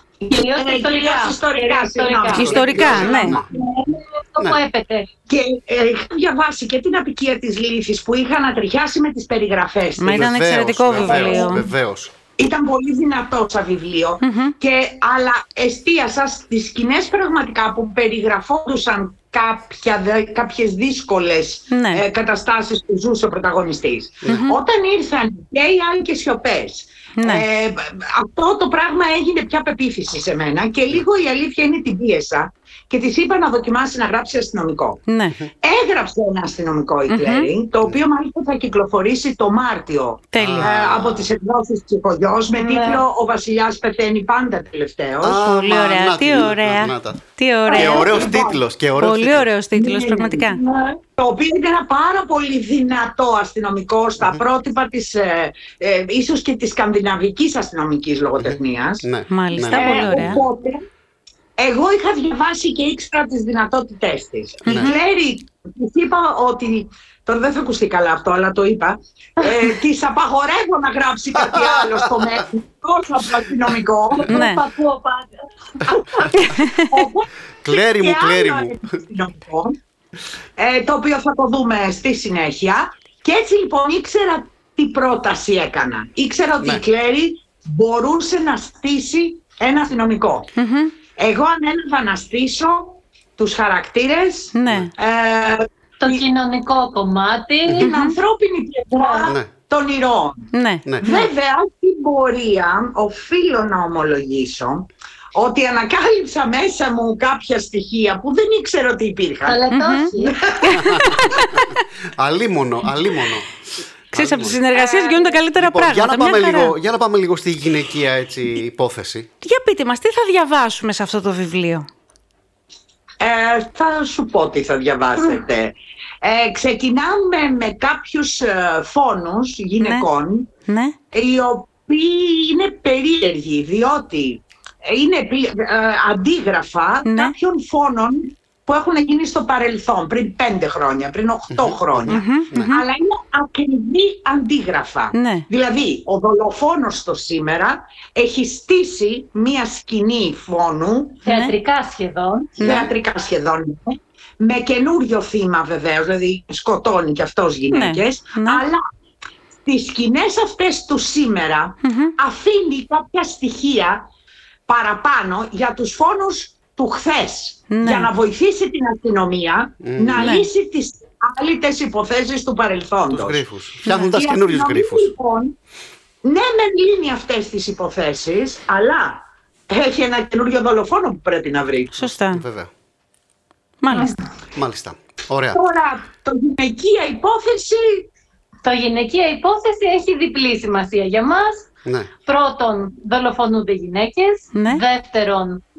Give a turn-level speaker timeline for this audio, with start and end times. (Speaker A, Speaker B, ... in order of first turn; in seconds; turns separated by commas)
Speaker A: 0.3-3.4, Speaker B: 0.3-5.1, Speaker C: 2.3-3.4, Speaker D: 2.4-3.4, Speaker A: 5.3-10.3, Speaker C: 10.0-11.7, Speaker D: 10.1-12.1, Speaker A: 11.0-11.5, Speaker A: 12.4-35.0, Speaker C: 14.2-14.5, Speaker C: 21.7-22.0, Speaker C: 24.3-24.6, Speaker C: 27.2-27.4, Speaker C: 35.1-35.3, Speaker A: 35.6-45.4, Speaker C: 37.1-37.5, Speaker C: 40.3-40.7, Speaker D: 40.4-41.3, Speaker B: 42.5-43.0, Speaker D: 45.2-49.5, Speaker C: 45.4-48.2, Speaker B: 47.7-48.4, Speaker C: 49.0-50.6, Speaker A: 49.7-50.5, Speaker B: 50.4-51.0, Speaker A: 51.2-59.1, Speaker D: 58.4-60.4, Speaker C: 59.3-60.4, Speaker A: 59.7-60.8, Speaker B: 59.8-60.1, Speaker A: 61.6-74.2, Speaker D: 64.7-64.9, Speaker B: 74.1-75.3, Speaker C: 74.3-74.6, Speaker B: 76.0-76.4, Speaker C: 76.4-77.0, Speaker A: 76.9-79.8, Speaker D: 77.6-78.8, Speaker A: 80.6-90.5, Speaker C: 90.5-90.9, Speaker A: 91.1-96.2, Speaker C: 94.5-94.9, Speaker B: 96.0-97.9, Speaker C: 97.8-98.2, Speaker A: 97.8-100.5, Speaker B: 98.9-99.3, Speaker C: 100.5-101.3, Speaker A: 101.0-109.6, Speaker B: 109.4-110.4, Speaker C: 109.7-110.1, Speaker A: 110.2-110.9, Speaker C: 110.6-111.6, Speaker D: 110.7-111.4, Speaker D: 112.2-113.6, Speaker D: 114.1-114.6, Speaker C: 114.1-116.7, Speaker A: 114.7-115.3, Speaker D: 115.5-119.3, Speaker C: 119.4-121.8, Speaker A: 123.2-130.5, Speaker C: 129.8-130.1, Speaker C: 130.7-130.9, Speaker A: 131.1-151.2, Speaker C: 137.0-137.3, Speaker D: 141.5-142.7, Speaker C: 142.1-142.8, Speaker C: 145.1-145.4, Speaker B: 151.2-152.8, Speaker C: 151.2-151.5, Speaker D: 152.6-152.9, Speaker A: 152.6-158.8, Speaker C: 157.7-158.6, Speaker A: 159.6-164.1, Speaker C: 161.8-162.1, Speaker A: 164.7-175.5, Speaker C: 167.7-168.1, Speaker D: 169.8-170.3, Speaker C: 170.1-170.5, Speaker D: 173.1-175.1, Speaker C: 173.8-174.2, Speaker A: 176.2-182.0, Speaker C: 181.9-182.4, Speaker D: 182.2-182.7, Speaker C: 183.8-184.1, Speaker D: 184.5-185.6, Speaker A: 185.5-188.1, Speaker B: 188.6-191.7, Speaker B: 192.2-195.6, Speaker C: 194.5-194.8